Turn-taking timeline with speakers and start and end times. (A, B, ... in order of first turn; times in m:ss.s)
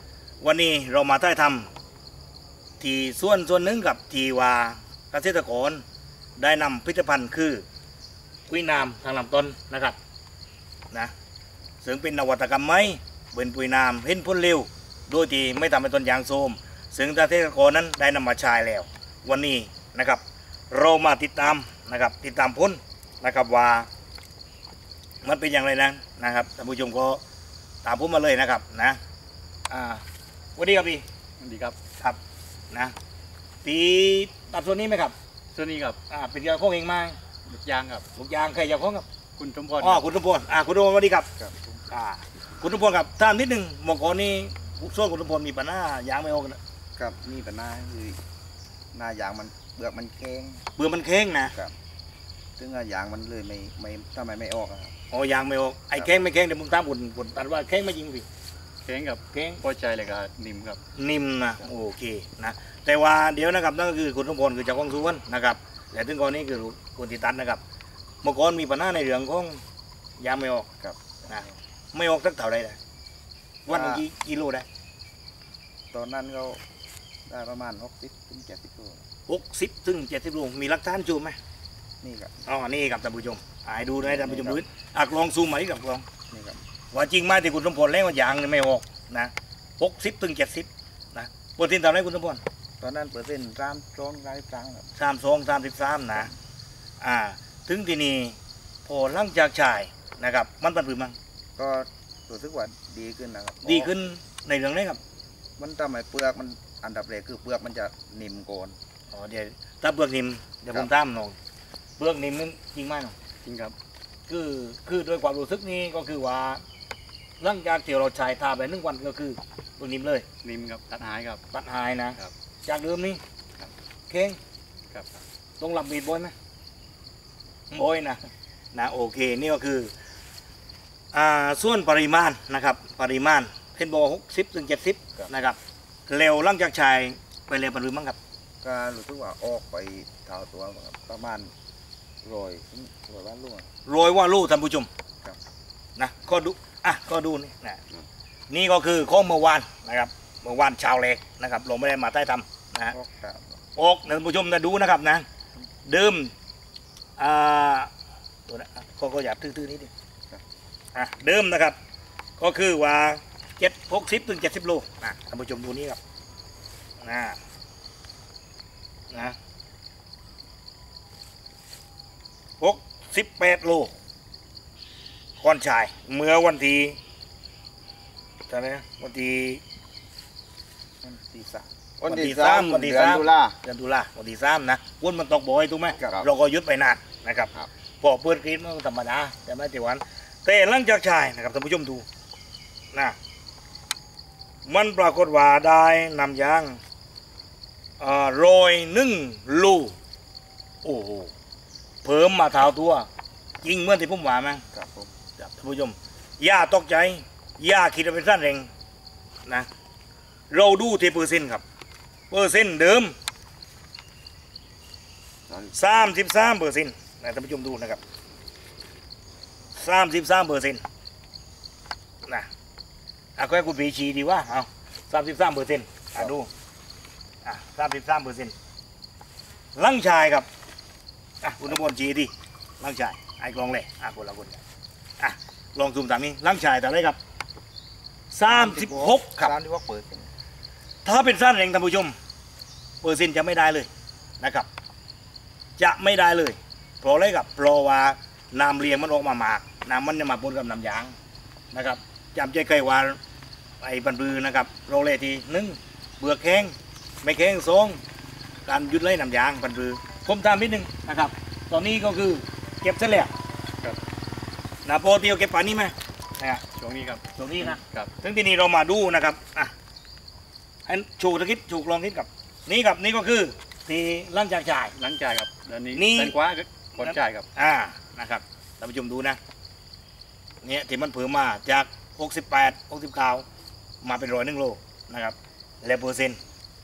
0:00.4-0:01.7 A
0:02.8-0:05.8 A
0:06.4-0:07.6 A
0:08.5-0:10.0 A
0:11.8-0:23.9 A
0:25.2-0:27.2 A
0:27.8-0:29.0 A
0:29.7-0:30.0 A
0:30.6-0:31.0 A
0:31.4-0:31.8 B
0:33.6-0:35.1 A
0:35.5-0:36.0 B
0:36.1-0:37.2 A
0:37.5-0:38.0 B
0:38.1-0:39.0 A
0:39.4-0:40.0 B
0:39.8-0:41.3 A
0:41.4-0:41.9 C
0:41.9-0:46.6 A
0:47.0-0:48.2 C
0:48.9-0:50.6 C
0:50.8-0:51.5 A
0:52.6-0:54.9 C
0:55.1-0:58.2 A
0:58.8-1:00.8 B
0:59.3-0:59.6 A
1:00.9-1:07.6 A
1:08.2-1:09.6 A
1:10.2-1:10.7 A
1:10.8-1:11.6 C
1:11.3-1:12.8 A
1:13.6-1:14.6 A
1:13.7-1:14.0 C
1:15.9-1:16.6 C
1:17.3-1:19.0 C
1:19.3-1:21.4 A
1:22.0-1:22.4 C
1:22.4-1:26.0 A
1:24.0-1:24.6 C
1:26.3-1:26.6 C
1:26.9-1:32.4 A
1:32.8-1:34.9 C
1:35.0-1:36.3 A
1:37.0-1:41.2 A
1:41.6-1:43.9 C
1:43.6-1:45.0 A
1:45.6-1:48.8 C
1:49.1-1:51.4 A
1:52.0-1:53.1 A
1:53.4-1:53.7 B
1:54.3-1:56.6 A
1:57.4-2:00.2 A
2:00.4-2:01.4 B
2:01.5-2:03.2 A
2:04.1-2:04.4 A
2:04.9-2:05.2 B
2:05.6-2:06.3 A
2:07.7-2:08.2 A
2:08.7-2:09.9 A
2:11.1-2:18.2 A
2:18.6-2:21.5 C
2:22.2-2:23.7 C
2:23.8-2:24.9 A
2:26.0-2:27.8 A
2:28.5-2:32.9 A
2:32.9-2:33.6 C
2:33.7-2:35.2 A
2:35.8-2:36.3 A
2:37.2-2:37.9 A
2:38.5-2:39.9 A
2:40.9-2:41.8 A
2:42.4-2:46.0 A
2:47.0-2:47.4 A
2:49.1-2:49.4 A
2:52.6-2:53.9 A
2:55.4-2:57.0 A
2:58.5-2:59.6 A
3:01.0-3:03.6 C
3:02.0-3:12.0 A
3:06.0-3:06.3 C
3:14.6-3:16.8 A
3:18.0-3:19.9 A
3:20.8-3:21.3 A
3:22.0-3:23.1 A
3:23.6-3:24.6 A
3:24.7-3:25.1 C
3:25.4-3:28.7 A
3:30.5-3:31.6 A
3:32.3-3:33.1 A
3:35.5-3:35.9 C
3:35.7-3:38.0 A
3:39.7-3:40.8 A
3:43.4-3:46.5 A
3:47.4-3:48.5 A
3:49.7-3:50.5 A
3:51.4-3:54.6 A
3:55.2-3:57.2 A
3:58.3-3:59.5 A
3:58.5-4:00.3 C
4:01.0-4:02.1 A
4:03.0-4:03.9 A
4:04.4-4:04.7 A
4:05.8-4:11.1 A
4:11.7-4:13.2 A
4:13.8-4:18.0 A
4:18.6-4:23.3 A
4:24.8-4:26.6 A
4:26.7-4:28.1 B
4:27.3-4:29.7 A
4:30.9-4:34.9 A
4:35.0-4:37.5 B
4:35.9-4:36.4 A
4:37.0-4:39.4 A
4:40.6-4:43.4 A
4:44.0-4:46.4 A